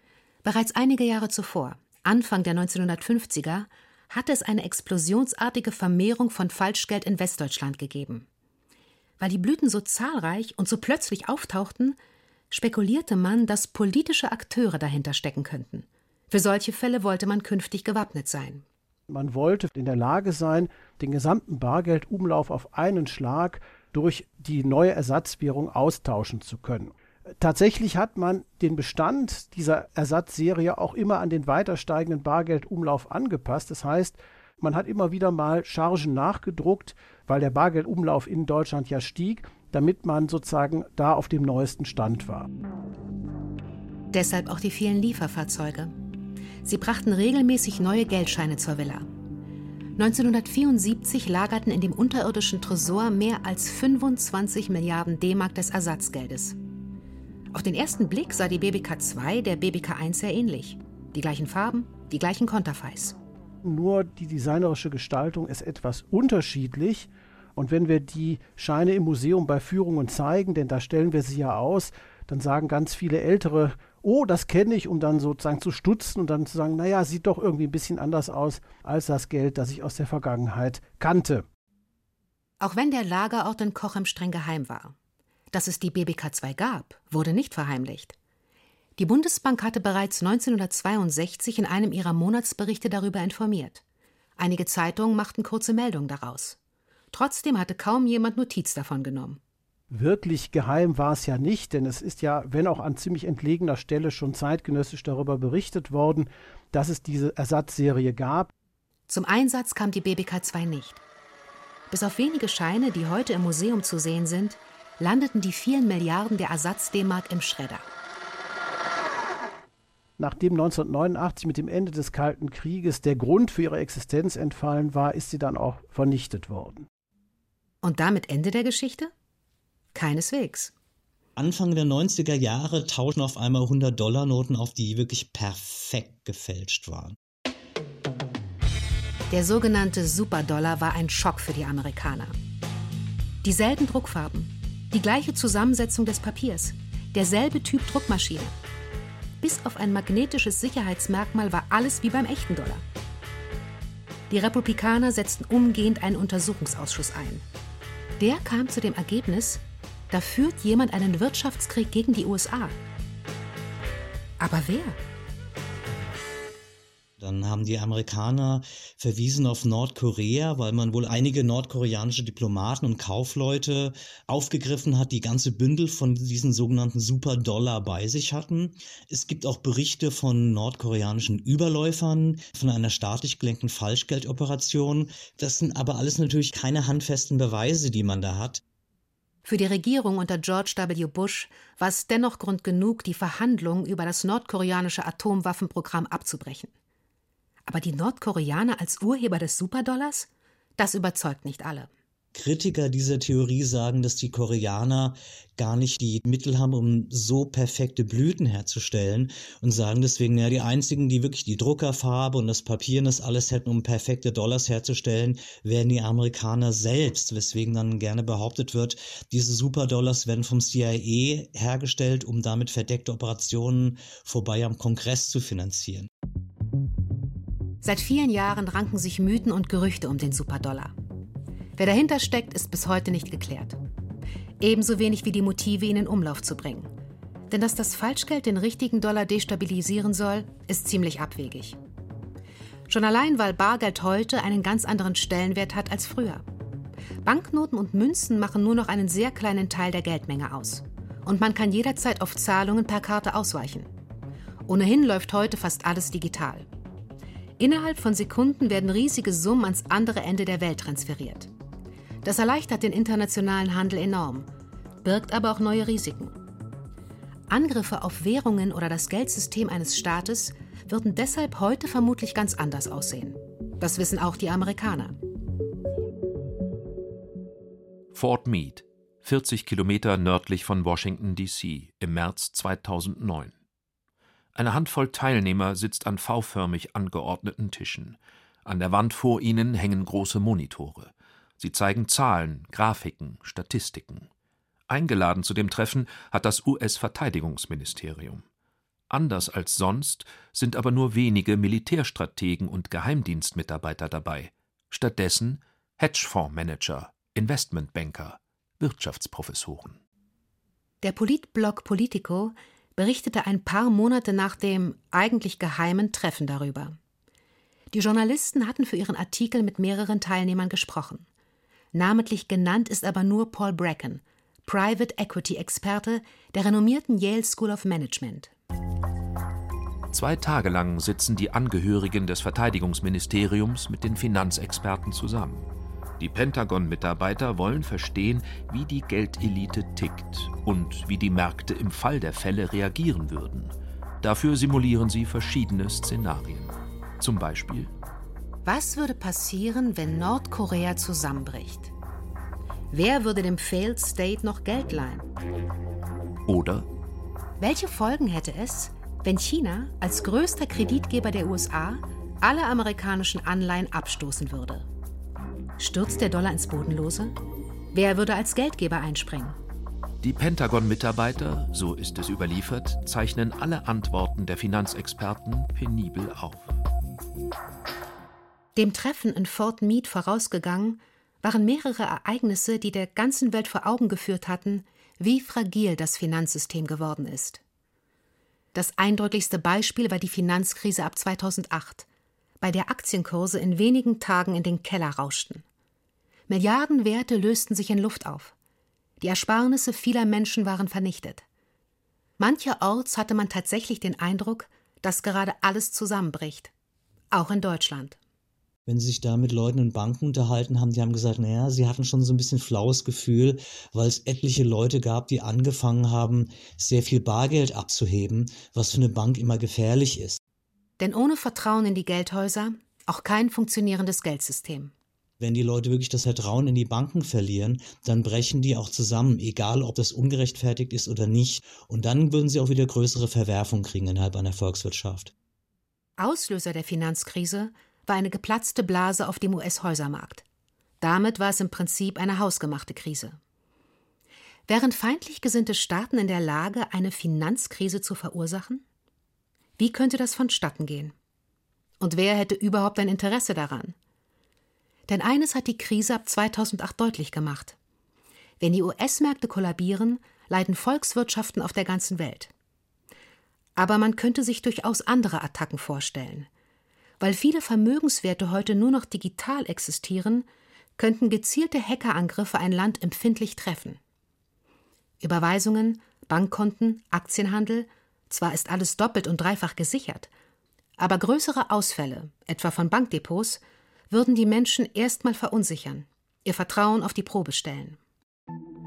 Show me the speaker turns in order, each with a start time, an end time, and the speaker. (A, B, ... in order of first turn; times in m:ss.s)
0:00.4-0:08.3 A
0:09.2-0:12.0 A
0:12.5-0:18.6 A
0:19.1-0:42.5 B
0:44.1-0:45.9 A
0:46.6-0:49.1 A
0:50.0-0:56.6 A
0:57.5-1:03.2 A
1:03.6-1:21.4 B
1:22.6-1:24.9 A
1:25.5-1:28.2 A
1:29.0-1:33.8 A
1:34.4-1:36.6 A
1:37.1-1:39.4 A
1:39.9-1:48.5 B
1:49.1-1:51.0 A
1:51.9-1:57.8 A
2:00.2-2:06.8 B
2:07.8-2:09.1 A
2:09.9-2:10.7 A
2:11.4-2:17.2 C
2:19.3-2:22.4 A
2:23.4-2:28.5 A
2:29.4-2:32.8 A
2:34.3-2:37.4 A
2:38.2-2:42.8 A
2:44.4-2:45.0 A
2:47.2-3:08.6 C
3:09.4-3:16.7 A
3:17.7-3:21.9 A
3:22.3-3:46.1 C
3:47.8-3:50.9 A
3:51.8-3:53.8 A
3:54.6-3:56.9 A
3:57.5-4:01.8 A
4:02.9-4:06.4 A
4:07.2-4:13.9 A
4:14.7-4:16.7 A
4:17.6-4:21.5 A
4:22.2-4:24.5 A
4:25.0-4:26.4 A
4:27.5-4:35.2 A
4:38.1-4:43.5 D
4:44.5-4:54.3 D
4:54.9-4:58.4 D
4:59.1-5:10.0 D
5:11.0-5:17.0 A
5:17.9-5:21.2 A
5:21.9-5:28.5 A
5:30.1-5:35.7 D
5:36.2-5:47.9 D
5:48.6-5:51.9 A
5:52.9-5:55.3 A
5:56.5-5:56.9 D
5:57.6-6:04.9 A
6:05.8-6:07.4 A
6:07.9-6:09.6 A
6:10.2-6:16.8 D
6:18.8-6:27.6 A
6:28.7-6:32.0 A
6:32.6-6:35.6 A
6:36.5-6:38.5 A
6:39.2-6:41.4 A
6:42.4-6:46.7 A
6:47.3-6:48.2 A
6:48.8-7:00.4 C
7:01.0-7:04.9 A
7:05.4-7:15.3 C
7:16.2-7:20.4 A
7:21.0-7:23.4 A
7:24.7-7:28.8 A
7:29.8-7:31.1 A
7:32.0-7:33.9 A
7:35.1-7:37.8 A
7:38.6-7:42.5 A
7:43.8-7:46.5 A
7:47.2-7:50.4 A
7:51.0-7:54.0 A
7:55.2-8:00.3 A
8:01.0-8:08.0 A